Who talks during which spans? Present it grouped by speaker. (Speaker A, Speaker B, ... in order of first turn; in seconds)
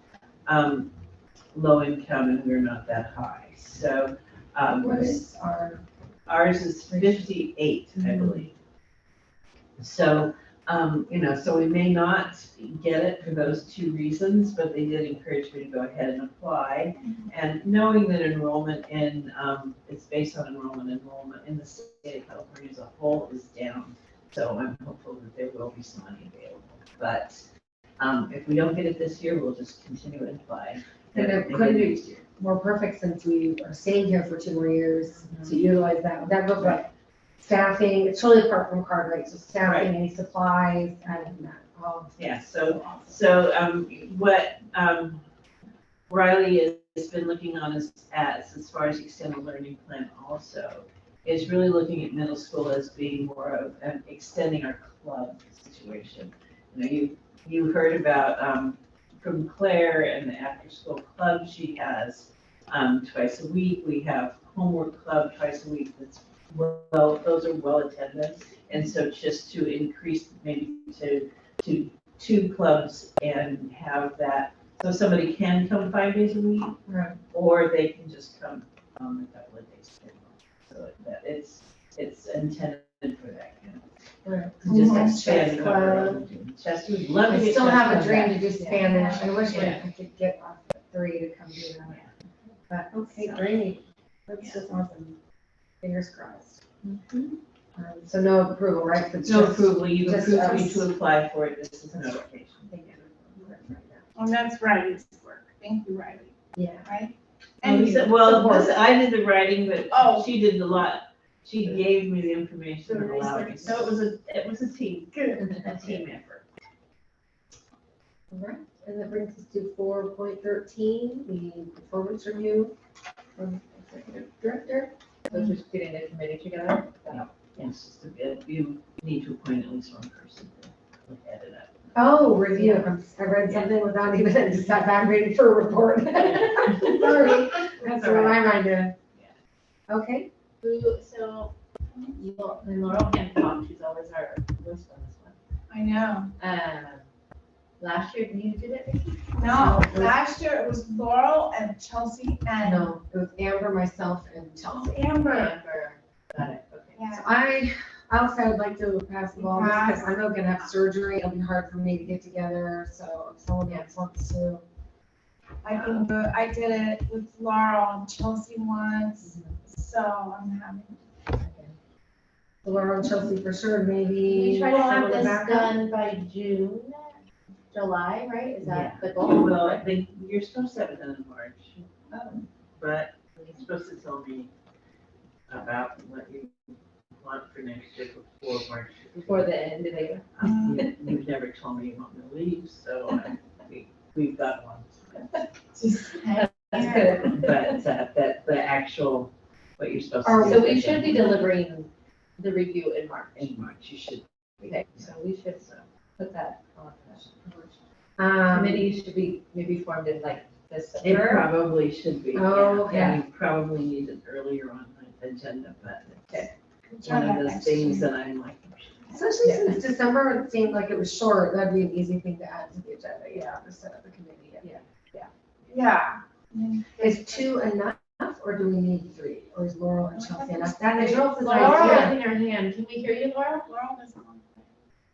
Speaker A: 0.5-0.9, 1.5-5.2, 6.3-8.6, 9.8-27.4, 28.0-32.2, 35.2-35.7, 39.6-39.9, 42.2-45.2, 46.1-76.8, 77.3-83.9, 84.6-88.5, 89.5-89.8, 91.9-92.1, 93.1-93.6, 99.2-102.7, 107.6-116.5, 127.1-132.3, 136.2-137.0, 178.6-184.5, 185.5-186.5, 187.2-189.5, 190.3-195.5, 197.0-201.3, 203.4-205.8, 211.0-216.5, 217.0-219.3
Speaker B: 4.8-5.8, 6.9-7.3, 8.0-8.4, 31.1-36.9, 37.4-43.2, 76.9-77.2, 84.2-85.7, 87.3-92.0, 92.7-95.2, 95.8-96.6, 97.8-100.9, 102.7-104.1, 106.5-106.9, 108.2-108.8, 118.3-122.8, 123.4-125.5, 131.9-138.9, 139.9-140.3, 149.4-150.2, 152.6-155.6, 157.1-164.7, 172.6-175.8, 200.2-201.0, 208.2-208.9, 212.3-213.2, 219.1-224.7, 227.0-232.2
Speaker C: 84.7-85.2, 88.9-89.2, 104.2-106.3, 106.9-108.1, 109.9-110.3, 112.9-113.5, 145.7-146.3, 149.4-152.9, 156.9-157.2, 159.4-160.2, 165.6-171.0, 190.4-190.8, 195.7-197.2, 216.9-218.1, 225.7-226.9, 230.1-231.8, 233.7-234.6
Speaker D: 85.2-86.2, 88.5-88.9, 115.5-116.0, 125.3-127.3, 132.5-132.9, 137.9-138.4, 140.6-141.5, 142.2-145.4, 146.4-147.1, 147.8-149.3, 154.7-157.0, 163.7-163.9, 169.2-169.6, 171.4-171.8, 174.2-177.2, 177.7-179.9, 189.2-191.1, 196.3-197.8, 200.4-203.5, 204.7-207.7, 208.5-211.5, 219.4-219.8, 224.6-225.3, 231.2-233.7